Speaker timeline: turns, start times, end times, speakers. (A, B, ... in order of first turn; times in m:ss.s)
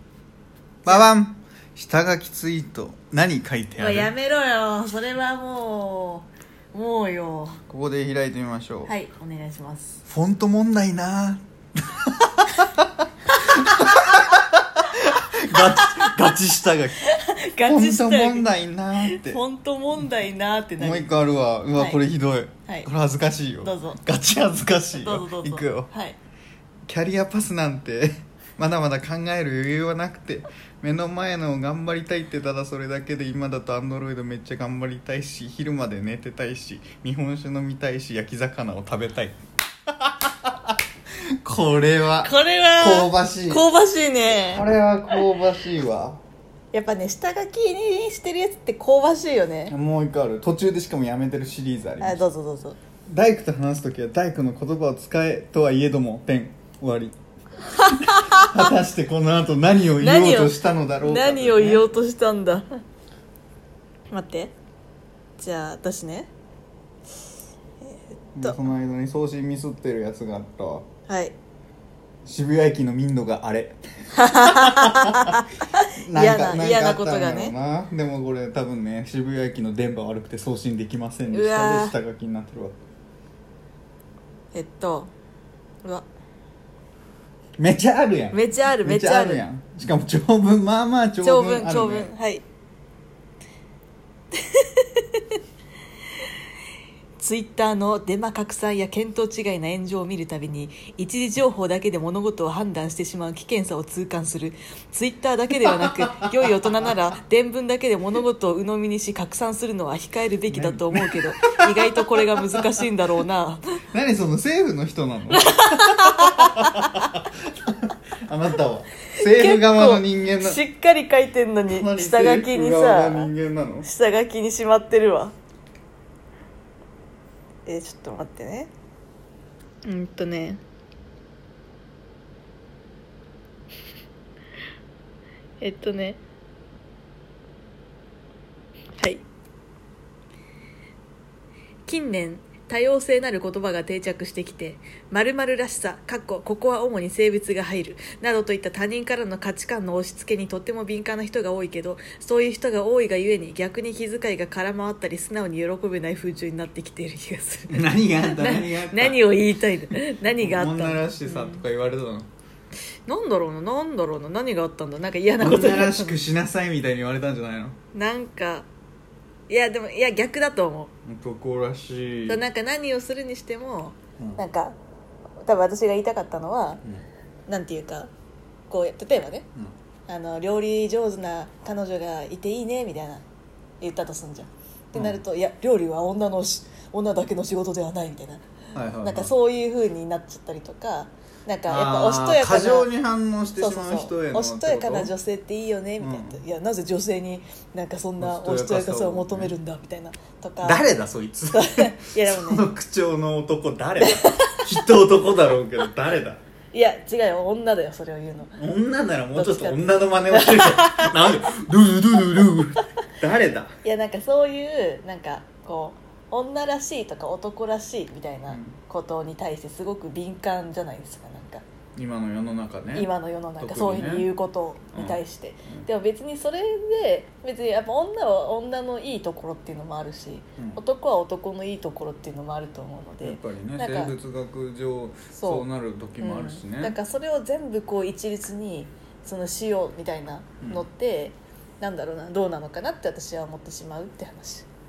0:00.8-0:04.1 A
0:03.8-0:07.6 B
0:07.7-0:08.9 A
0:08.9-0:10.0 B
0:10.1-0:17.0 A
0:13.5-0:14.0 B
0:15.5-0:16.3 B
0:17.0-0:18.5 B
0:17.6-0:19.4 A
0:19.0-0:21.1 B
0:20.8-0:25.9 A
0:21.8-0:22.0 B
0:23.6-0:24.0 B
0:24.9-0:26.2 B
0:26.9-0:40.8 A
0:41.4-0:43.6 A
0:42.2-0:45.2 B
0:44.4-0:46.2 A
0:46.7-0:49.7 B
0:49.7-0:52.2 A
0:52.0-0:52.8 B
0:53.1-0:57.2 A
0:57.6-0:58.6 B
0:57.8-1:01.9 A
1:00.0-1:02.8 B
1:04.1-1:04.5 B
1:05.4-1:06.3 B
1:07.8-1:08.7 B
1:08.4-1:10.8 A
1:11.1-1:11.3 B
1:12.2-1:15.4 A
1:14.2-1:17.5 B
1:16.0-1:22.8 A
1:21.3-1:22.0 B
1:24.5-1:25.1 B
1:27.6-1:32.1 A
1:28.3-1:29.4 B
1:31.2-1:32.4 B
1:34.3-1:35.4 B
1:37.2-1:53.6 B
1:45.7-1:47.0 A
1:50.5-1:52.8 A
1:53.9-2:00.6 A
1:55.3-1:57.1 B
1:59.1-2:03.3 B
2:01.7-2:03.9 A
2:03.8-2:05.3 B
2:07.7-2:08.7 B
2:09.9-2:10.6 B
2:15.6-2:16.2 B
2:19.0-2:19.2 B
2:21.9-2:41.6 B
2:37.7-2:39.4 A
2:40.4-2:42.3 A
2:43.1-2:46.2 B
2:45.4-2:47.8 A
2:47.9-2:48.7 B
2:49.5-2:50.9 B
2:51.1-2:52.4 A
2:52.3-2:54.8 B
2:55.4-2:56.8 B
2:57.5-2:58.1 B
2:58.7-2:59.5 B
3:00.1-3:03.2 B
3:03.8-3:08.4 B
3:04.9-3:05.2 A
3:08.7-3:09.3 A
3:09.0-3:12.9 B
3:11.7-3:15.1 A
3:13.6-3:20.8 B
3:16.0-3:16.4 A
3:18.2-3:19.5 A
3:20.6-3:26.4 A
3:21.5-3:22.7 B
3:24.0-3:24.8 B
3:26.7-3:28.6 B
3:28.6-3:33.8 A
3:29.4-3:31.4 B
3:32.4-3:32.8 B
3:33.8-3:41.6 B
3:38.5-3:38.8 A
3:42.0-3:44.3 A
3:42.9-3:54.1 B
3:44.9-3:45.9 A
3:53.2-3:57.0 A
3:55.4-3:55.6 B
3:56.2-4:04.7 B